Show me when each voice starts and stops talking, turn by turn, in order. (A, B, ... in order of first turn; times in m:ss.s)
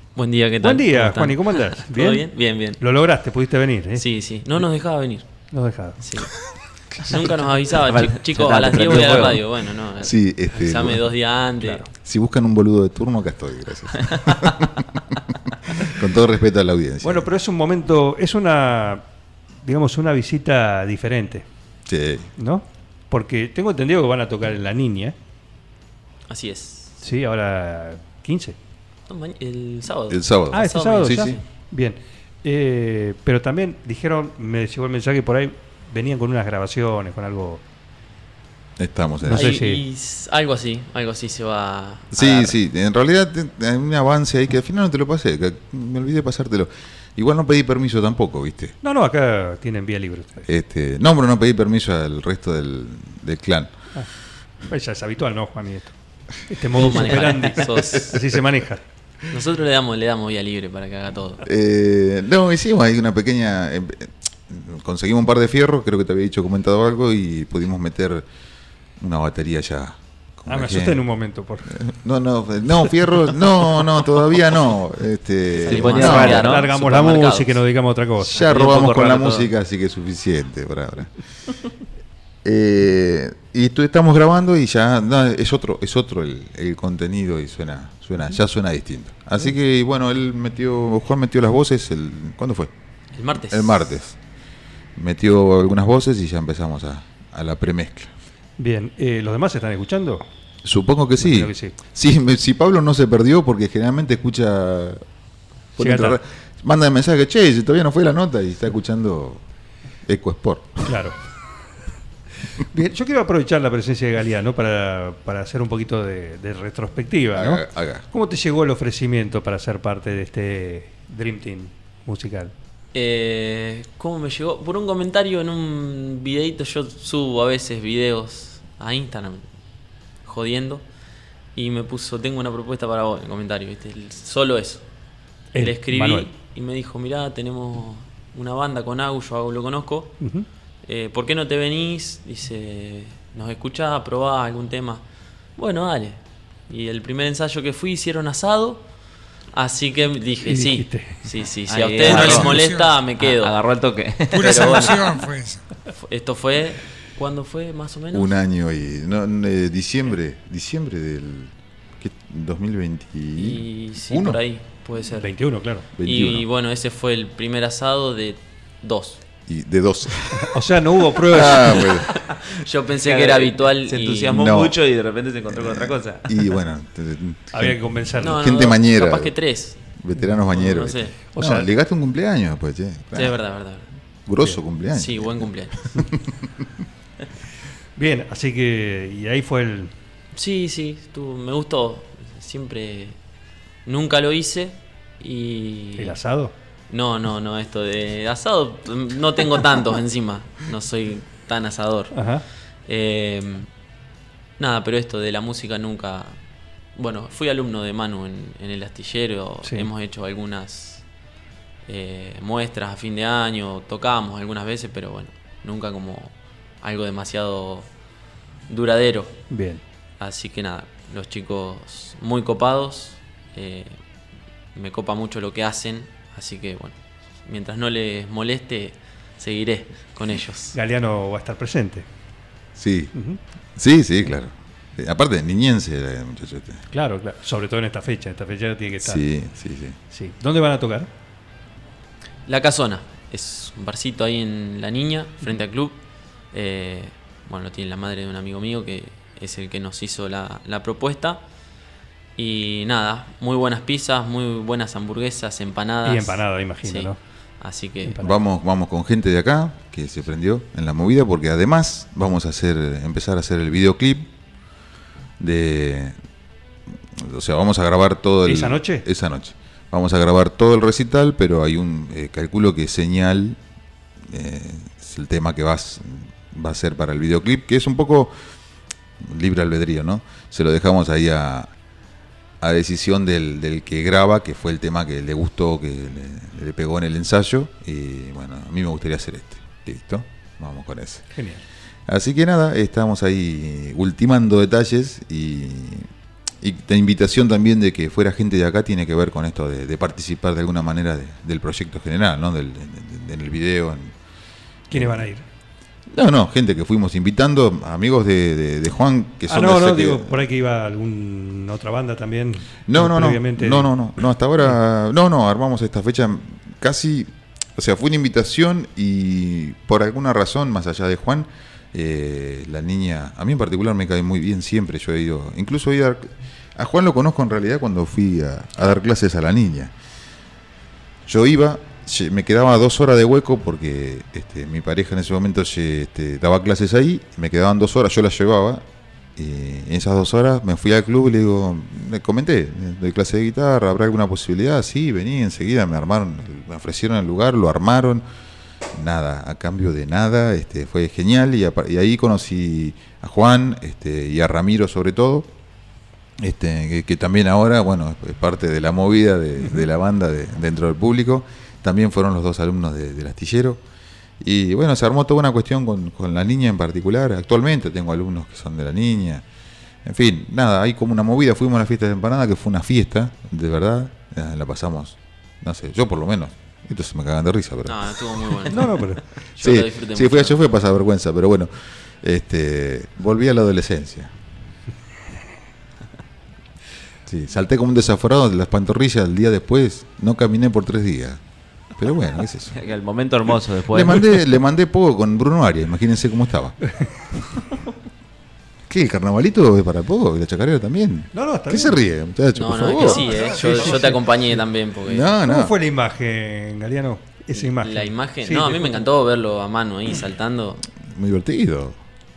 0:00.2-0:02.8 A
0:00.6-0:02.3 B
0:02.8-0:04.0 B
0:04.0-0:05.2 A
0:05.5-0:06.0 B
0:06.0-0:06.3 A
0:07.0-0:11.8 A
0:07.8-0:09.4 C
0:10.0-0:11.0 D
0:12.0-0:17.3 D
0:17.0-0:19.0 B
0:19.6-0:21.4 B
0:21.8-0:22.3 D
0:22.4-0:25.2 B
0:26.3-0:26.9 A
0:27.0-0:28.6 B
0:29.1-0:31.4 A
0:30.1-0:31.4 D
0:30.5-0:37.6 B
0:38.8-0:39.6 D
0:39.2-0:39.8 B
0:39.3-0:42.6 A
0:42.1-0:48.7 D
0:48.8-0:50.5 B
0:50.5-0:53.7 D
0:54.7-0:55.9 B
0:56.4-0:58.8 B
0:56.7-0:58.2 A
0:57.3-0:58.0 D
0:59.3-1:01.4 A
1:01.4-1:08.3 D
1:09.0-1:11.0 D
1:10.5-1:11.7 B
1:11.7-1:16.5 D
1:15.6-1:16.7 C
1:15.6-1:17.6 A
1:16.0-1:18.5 B
1:18.2-1:21.1 D
1:18.3-1:19.5 C
1:22.4-1:32.7 D
1:33.2-1:33.8 A
1:33.5-1:34.2 D
1:35.0-1:38.1 D
1:38.6-1:40.2 B
1:40.6-1:45.0 D
1:41.2-1:41.8 B
1:45.8-1:49.4 D
1:45.8-1:46.2 B
1:50.0-1:51.0 D
1:50.8-1:51.2 B
1:52.6-2:02.5 B
1:57.3-1:58.0 D
2:02.9-2:09.4 A
2:10.2-2:10.8 A
2:11.5-2:14.8 A
2:15.5-2:16.3 B
2:15.6-2:20.2 A
2:20.2-2:20.4 B
2:20.8-2:25.0 A
2:25.6-2:28.8 A
2:29.5-2:33.5 A
2:30.4-2:31.2 B
2:31.7-2:32.6 C
2:32.0-2:33.0 E
2:33.2-2:34.8 C
2:34.3-2:35.6 E
2:34.4-2:35.1 A
2:36.0-2:38.3 A
2:38.1-2:44.4 D
2:43.4-2:45.3 A
2:45.1-2:45.8 B
2:46.0-2:46.4 D
2:46.0-2:49.2 A
2:49.5-2:50.6 D
2:50.3-2:51.8 B
2:51.2-2:52.2 D
2:51.7-2:54.4 A
2:53.0-2:56.2 C
2:54.3-2:54.8 D
2:55.5-2:59.3 D
2:57.5-2:58.4 B
2:58.2-2:59.8 A
3:00.0-3:03.4 D
3:00.5-3:01.1 A
3:01.3-3:01.7 B
3:03.1-3:03.9 A
3:04.2-3:06.3 D
3:04.9-3:05.8 A
3:08.0-3:09.9 B
3:10.3-3:13.2 A
3:13.8-3:16.2 A
3:16.0-3:16.5 B
3:16.9-3:22.2 A
3:22.1-3:22.4 B
3:22.9-3:23.7 A
3:24.6-3:26.4 A
3:27.0-3:31.0 A
3:29.6-3:29.9 B
3:31.9-3:37.9 A
3:38.7-3:39.4 A
3:39.5-3:39.8 B
3:40.2-3:43.9 A
3:44.7-3:50.8 A
3:50.7-3:52.0 B
3:52.8-3:53.1 D
3:53.1-3:53.4 B
3:53.8-3:56.8 D
3:56.9-3:59.2 B
3:59.0-4:00.0 D
4:00.1-4:01.1 B
4:02.5-4:05.9 A
4:06.5-4:11.4 A
4:12.4-4:17.1 A
4:16.0-4:17.2 B
4:17.6-4:18.2 A
4:18.0-4:18.4 B
4:18.2-4:24.3 D
4:25.4-4:26.2 D
4:27.1-4:33.6 D
4:28.4-4:29.0 B
4:34.2-4:38.3 D
4:39.2-4:41.7 D
4:42.6-4:51.3 D
4:51.3-4:51.6 B
4:52.1-4:56.1 D
4:56.6-5:04.1 D
5:04.9-5:05.4 B
5:04.9-5:05.2 D
5:06.1-5:10.4 D
5:09.4-5:13.9 B
5:12.9-5:29.9 D
5:31.2-5:38.8 D
5:39.4-5:48.2 D
5:48.9-5:55.5 D
5:56.4-6:03.8 D
6:04.4-6:09.4 D
6:10.0-6:18.7 D
6:17.8-6:20.6 A
6:18.7-6:19.2 B
6:19.6-6:24.3 D
6:27.3-6:31.4 D
6:32.0-6:32.8 D
6:32.7-6:34.4 C
6:33.9-6:36.8 D
6:38.9-6:43.6 D
6:41.3-6:42.0 B
6:42.5-6:45.3 A
6:43.0-6:44.3 B
6:45.0-6:45.7 D
6:45.4-6:49.0 B
6:47.6-6:50.8 A
6:51.0-6:52.0 D